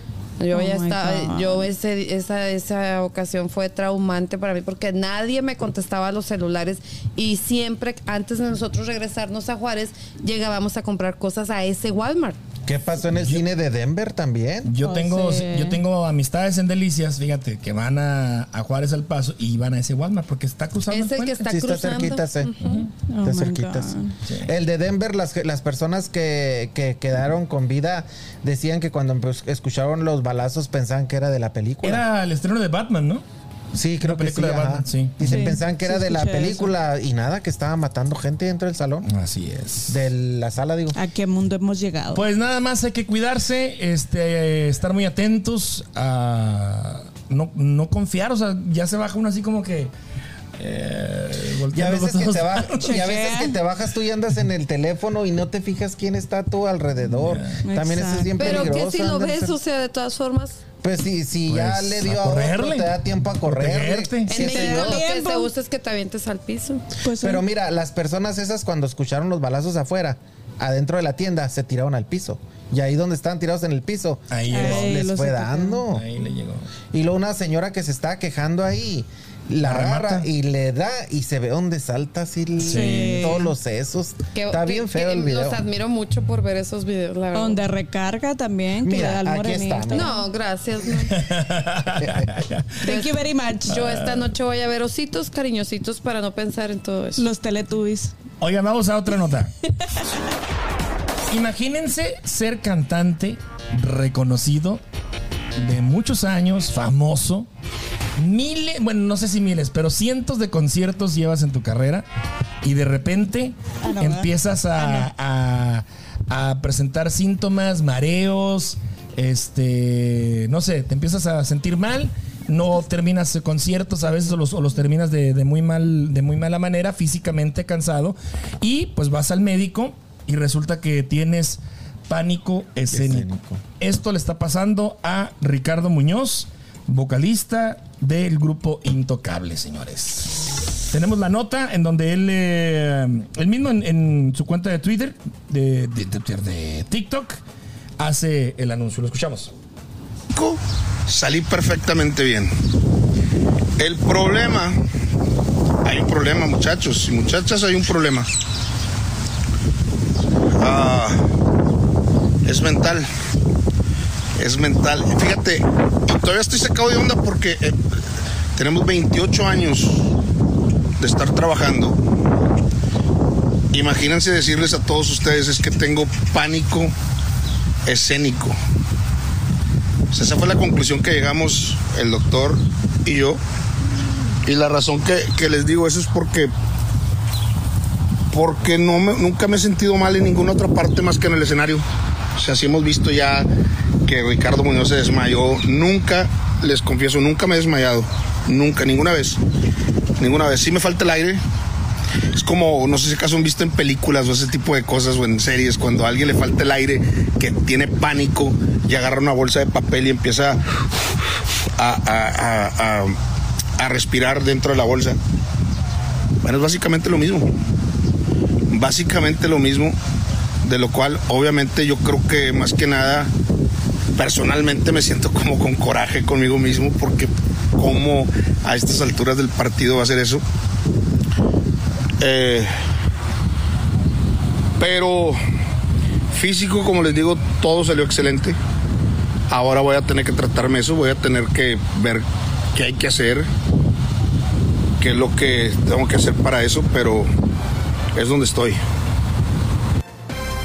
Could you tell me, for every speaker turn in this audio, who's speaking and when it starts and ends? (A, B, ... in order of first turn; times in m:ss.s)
0:00.4-0:12.4 A
0:00.5-0:01.7 B
0:12.6-0:14.7 C
0:14.6-0:21.5 D
0:14.8-0:15.8 B
0:20.9-0:22.8 A
0:21.4-0:22.5 C
0:22.6-0:22.9 D
0:23.1-0:24.1 B
0:23.2-0:32.0 C
0:31.8-0:33.2 D
0:33.7-0:39.1 C
0:34.0-0:35.5 D
0:35.2-0:36.7 B
0:39.0-0:40.0 D
0:39.9-0:41.0 C
0:40.9-0:42.2 B
0:42.1-0:49.9 D
0:50.6-0:53.0 D
0:51.7-0:59.6 C
0:52.8-0:53.6 B
0:57.1-0:57.6 D
0:57.6-0:58.6 B
0:58.4-1:00.6 A
1:00.8-1:05.0 C
1:01.5-1:04.4 D
1:04.3-1:06.8 A
1:04.4-1:05.5 B
1:07.0-1:07.4 B
1:07.1-1:16.0 C
1:14.3-1:15.0 D
1:14.5-1:15.8 B
1:15.9-1:16.6 D
1:16.9-1:25.6 C
1:19.6-1:20.3 D
1:22.6-1:23.4 D
1:22.6-1:23.5 B
1:24.3-1:27.6 A
1:27.3-1:30.2 B
1:28.8-1:30.1 C
1:29.9-1:31.1 A
1:31.1-1:32.8 D
1:32.0-1:32.3 C
1:32.8-1:33.8 B
1:32.8-1:37.2 A
1:33.7-1:34.3 D
1:37.2-1:38.1 B
1:38.4-1:39.5 D
1:41.3-1:44.8 D
1:45.6-1:47.5 D
1:48.2-1:52.0 D
1:52.6-2:20.4 D
1:53.8-1:55.1 B
2:12.9-2:13.6 C
2:20.9-2:27.4 D
2:28.0-2:29.5 D
2:30.3-2:32.5 E
2:33.8-2:34.8 E
2:35.8-2:38.3 E
2:40.6-2:41.2 E
2:42.4-2:43.1 E
2:44.4-2:47.8 E
2:48.5-2:50.1 E
2:51.0-2:52.0 E
2:53.7-2:56.9 E
2:57.8-2:58.6 E
3:00.1-3:03.4 E
3:04.4-3:06.5 E
3:08.3-3:11.8 E
3:12.4-3:13.5 E
3:14.0-3:19.4 E
3:20.2-3:21.4 E
3:22.3-3:30.6 E
3:31.8-3:33.2 E
3:33.8-3:35.2 E
3:36.4-3:37.5 E
3:38.7-3:39.9 E
3:40.6-3:43.3 E
3:44.1-3:50.4 E
3:52.2-3:52.7 E
3:54.8-3:55.4 E
3:56.3-3:58.6 E
3:59.5-4:03.5 E
4:05.0-4:07.3 E
4:08.1-4:08.8 E